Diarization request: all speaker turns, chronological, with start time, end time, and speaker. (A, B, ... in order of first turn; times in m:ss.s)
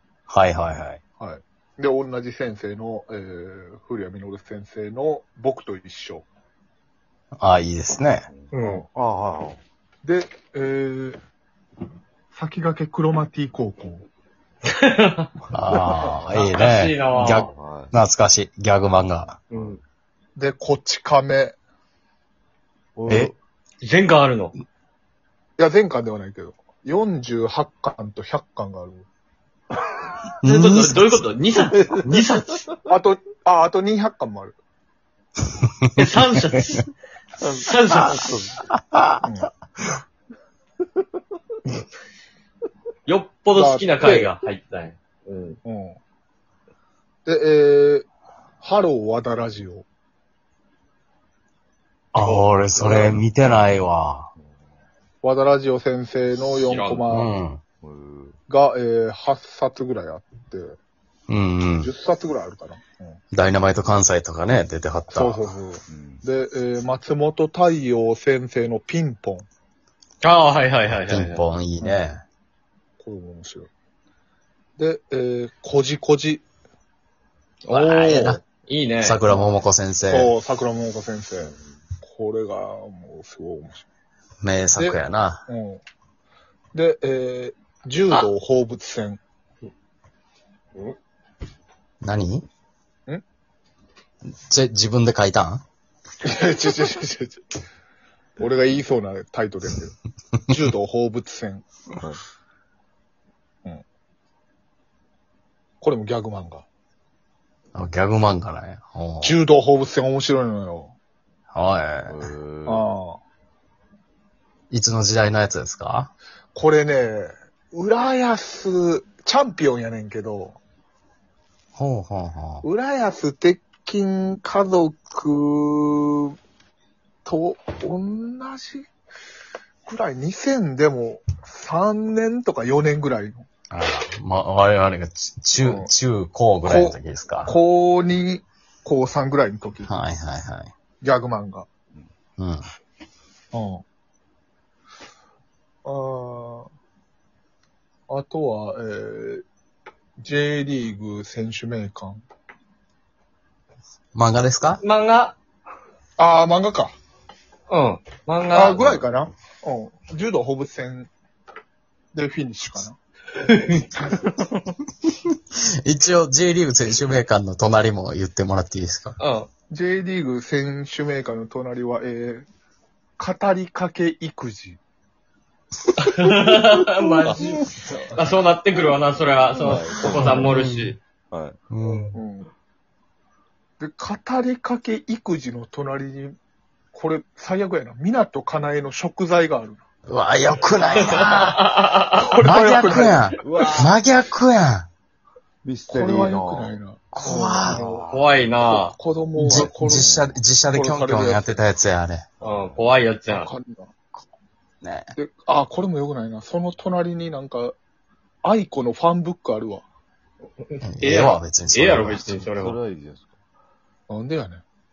0:00.3-0:01.0 A
0:01.2-0:06.2 B
0:07.4-0:08.3 A
0:08.3-0:09.6 C
0:08.5-0:08.8 D
0:08.5-0:08.8 B
0:10.0-0:11.2 B
0:12.3-0:14.0 B
0:14.7-0:17.5 D
0:15.5-0:19.4 A
0:17.3-0:17.9 C
0:19.5-0:19.8 D
0:20.4-0:21.6 B
0:23.0-0:23.3 C
0:23.1-0:23.3 A
0:23.8-0:24.5 D
0:25.6-0:29.0 B
0:30.4-0:31.2 A
0:30.4-0:32.6 D
0:32.8-0:34.6 B
0:36.0-0:36.9 D
0:37.4-0:38.6 C
0:37.6-0:38.4 D
0:38.7-0:39.2 A
0:39.2-0:39.5 B
0:43.0-0:45.6 D
0:43.5-0:44.0 B
0:45.6-0:46.0 B
0:47.2-0:48.1 B
0:48.6-0:49.8 B
0:52.1-0:54.3 A
0:52.2-0:53.2 B
0:55.2-0:57.3 B
0:56.6-0:57.0 D
0:57.1-0:57.6 A
0:57.8-0:58.4 C
0:58.5-1:00.8 B
1:01.3-1:01.9 A
1:01.8-1:03.2 B
1:03.3-1:05.4 A
1:05.1-1:09.4 B
1:05.9-1:06.2 C
1:10.2-1:11.4 D
1:11.0-1:12.2 A
1:11.8-1:12.1 B
1:13.0-1:13.7 B
1:14.8-1:16.4 B
1:17.7-1:19.2 D
1:17.7-1:18.4 A
1:19.0-1:20.3 A
1:20.1-1:23.8 B
1:24.4-1:25.4 A
1:24.8-1:25.8 B
1:26.7-1:29.2 B
1:32.0-1:32.4 A
1:34.5-1:35.6 A
1:36.2-1:37.4 B
1:38.4-1:39.9 B
1:40.5-1:41.7 B
1:45.8-1:46.6 B
1:47.7-1:49.4 A
1:49.2-1:50.9 B
1:51.5-1:52.2 A
1:52.1-1:52.8 C
1:52.6-1:53.2 B
1:54.7-1:56.1 A
1:56.5-2:00.6 B
2:01.8-2:02.6 A
2:02.6-2:06.3 B
2:07.2-2:08.9 B
2:09.8-2:13.4 B
2:13.7-2:17.6 A
2:15.6-2:15.9 B
2:16.6-2:20.0 B
2:19.8-2:20.7 A
2:21.0-2:21.7 B
2:22.4-2:22.6 A
2:23.5-2:23.8 B
2:25.8-2:26.7 B
2:28.1-2:29.4 B
2:30.2-2:32.2 B
2:34.1-2:34.8 A
2:34.8-2:35.4 D
2:36.2-2:36.9 B
2:37.7-2:39.0 D
2:38.5-2:41.1 B
2:42.1-2:43.0 B
2:43.4-2:44.0 D
2:45.8-2:49.2 A
2:49.2-2:49.5 D
2:49.7-2:52.4 B
2:53.2-2:54.8 B
2:56.0-3:01.0 D
2:57.2-2:57.8 C
2:59.6-3:00.5 C
3:00.2-3:01.0 A
3:01.3-3:01.6 C
3:01.7-3:02.2 A
3:02.1-3:02.5 B
3:03.8-3:06.4 B
3:06.9-3:09.8 B
3:10.1-3:11.7 A
3:11.0-3:12.4 D
3:12.2-3:13.4 B
3:12.4-3:14.9 A
3:13.4-3:13.9 C
3:15.6-3:16.8 C
3:15.9-3:18.0 B
3:17.1-3:17.8 A
3:17.6-3:18.7 C
3:18.0-3:19.0 D
3:18.6-3:20.1 B
3:19.4-3:22.3 A
3:19.5-3:20.4 C
3:20.7-3:21.5 B
3:22.4-3:23.0 C
3:22.4-3:23.5 D
3:23.3-3:23.9 B
3:24.8-3:25.1 A
3:25.1-3:27.8 B
3:28.4-3:29.8 B
3:30.7-3:32.8 D
3:30.8-3:32.4 A
3:32.3-3:33.3 C
3:34.1-3:34.6 B